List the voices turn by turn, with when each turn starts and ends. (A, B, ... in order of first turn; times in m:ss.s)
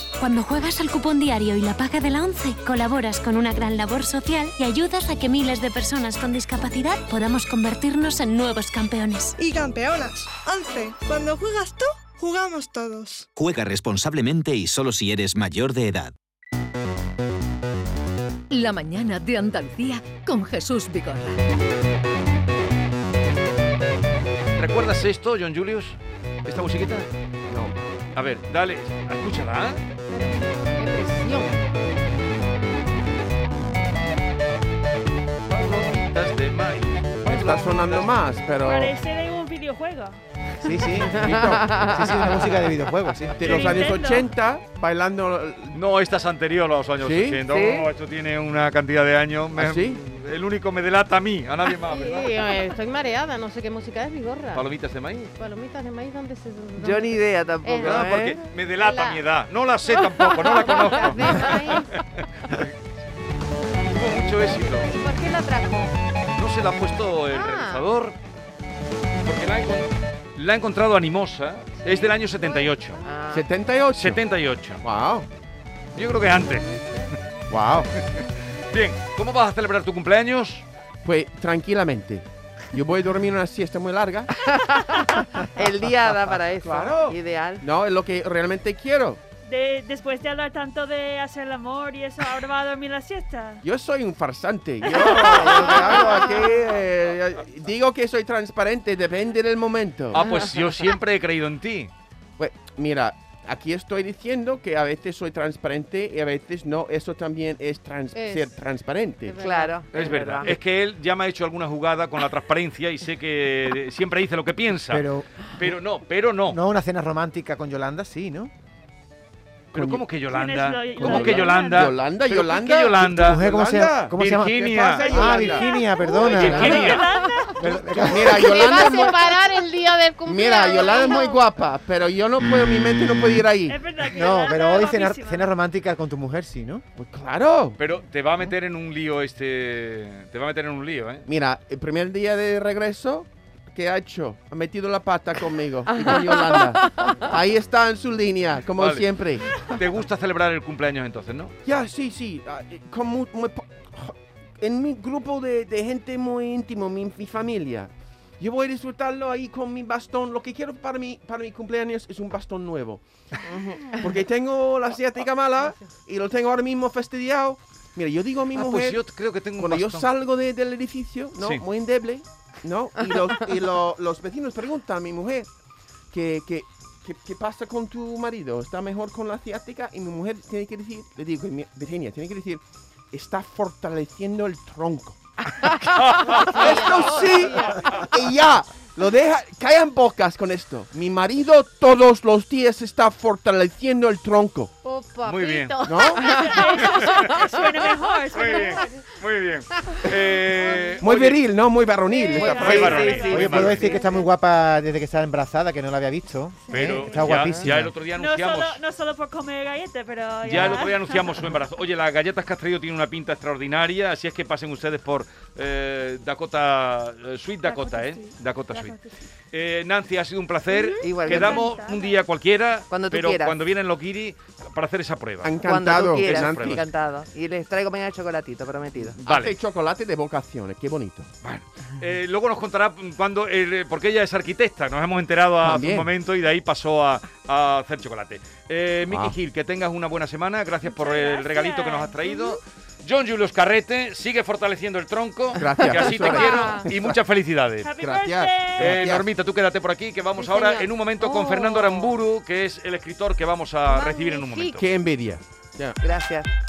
0:00.2-0:09.3 A
0:09.4-0:13.3 B
0:13.4-0:16.1 C
0:18.5-0:21.4 D
0:24.5-0:27.1 E
0:27.5-0:27.8 F
0:28.1-0:29.8 E
0:30.1-0:31.6 G
0:35.5-0:38.1 E
0:37.2-0:38.9 F
0:38.6-0:40.2 H
0:40.6-0:43.8 I
0:41.1-0:42.1 F
0:41.7-0:42.1 J
0:43.3-0:45.8 F
0:43.4-0:44.3 H
0:45.7-0:52.7 E
0:47.0-0:47.4 F
0:47.5-0:47.9 J
0:49.6-0:50.0 F
0:51.8-0:59.2 G
0:54.5-0:55.2 E
0:56.8-0:58.4 J
0:57.8-1:02.7 E
1:00.0-1:02.0 G
1:03.9-1:04.9 E
1:04.2-1:05.9 G
1:06.4-1:08.1 E
1:07.3-1:07.8 G
1:09.2-1:13.0 E
1:11.8-1:13.2 G
1:13.0-1:13.4 J
1:13.3-1:14.2 F
1:13.9-1:14.8 E
1:14.8-1:15.2 F
1:15.9-1:16.7 E
1:17.5-1:17.9 F
1:18.1-1:20.6 E
1:21.0-1:24.5 F
1:24.4-1:27.6 J
1:26.6-1:29.2 F
1:29.4-1:33.6 H
1:33.6-1:40.4 F
1:35.0-1:36.3 H
1:40.1-1:41.9 E
1:42.4-1:49.4 F
1:48.1-1:48.5 G
1:49.2-1:49.8 G
1:49.4-1:50.6 J
1:49.9-1:56.6 E
1:54.9-1:55.8 I
1:56.5-1:58.5 I
1:59.7-2:00.1 F
1:59.7-2:03.4 E
2:00.3-2:02.0 H
2:01.0-2:06.9 F
2:03.0-2:07.0 I
2:04.1-2:05.2 E
2:05.0-2:07.7 H
2:06.2-2:07.1 E
2:07.6-2:08.8 I
2:07.6-2:09.6 F
2:08.3-2:11.4 G
2:10.2-2:13.8 F
2:13.7-2:15.5 H
2:14.1-2:16.8 I
2:17.0-2:17.8 F
2:17.8-2:21.3 E
2:21.3-2:29.7 F
2:26.1-2:27.3 J
2:28.8-2:31.5 E
2:31.6-2:43.0 F
2:43.4-2:44.0 J
2:43.8-2:49.0 F
2:48.5-2:50.1 E
2:49.6-2:55.5 F
2:51.4-2:51.6 E
2:56.1-3:14.7 F
3:06.1-3:07.1 E
3:06.3-3:08.0 G
3:14.8-3:17.9 G
3:15.2-3:16.0 E
3:15.8-3:16.2 F
3:16.2-3:19.1 H
3:16.8-3:17.4 E
3:18.3-3:21.4 E
3:19.9-3:21.0 G
3:21.0-3:23.2 F
3:22.1-3:22.6 G
3:22.3-3:24.1 H
3:22.4-3:23.9 E
3:22.4-3:23.7 J
3:23.3-3:28.0 I
3:26.7-3:27.5 H
3:26.7-3:28.8 E
3:28.1-3:31.5 H
3:30.4-3:39.0 E
3:37.6-3:39.2 H
3:39.5-3:46.8 E
3:40.7-3:42.2 H
3:41.0-3:41.6 J
3:42.9-3:43.6 J
3:45.4-3:46.8 F
3:45.6-3:49.2 J
3:49.2-3:49.5 E
3:49.2-3:51.3 F
3:51.4-4:07.9 E
3:55.6-3:56.1 F
3:59.1-3:59.3 F
4:00.8-4:02.3 H
4:05.5-4:07.2 F
4:06.1-4:06.8 G
4:07.8-4:09.0 H
4:08.0-4:09.2 F
4:08.8-4:14.9 E
4:10.4-4:12.2 G
4:13.9-4:14.8 G
4:14.8-4:16.0 F
4:16.0-4:16.5 J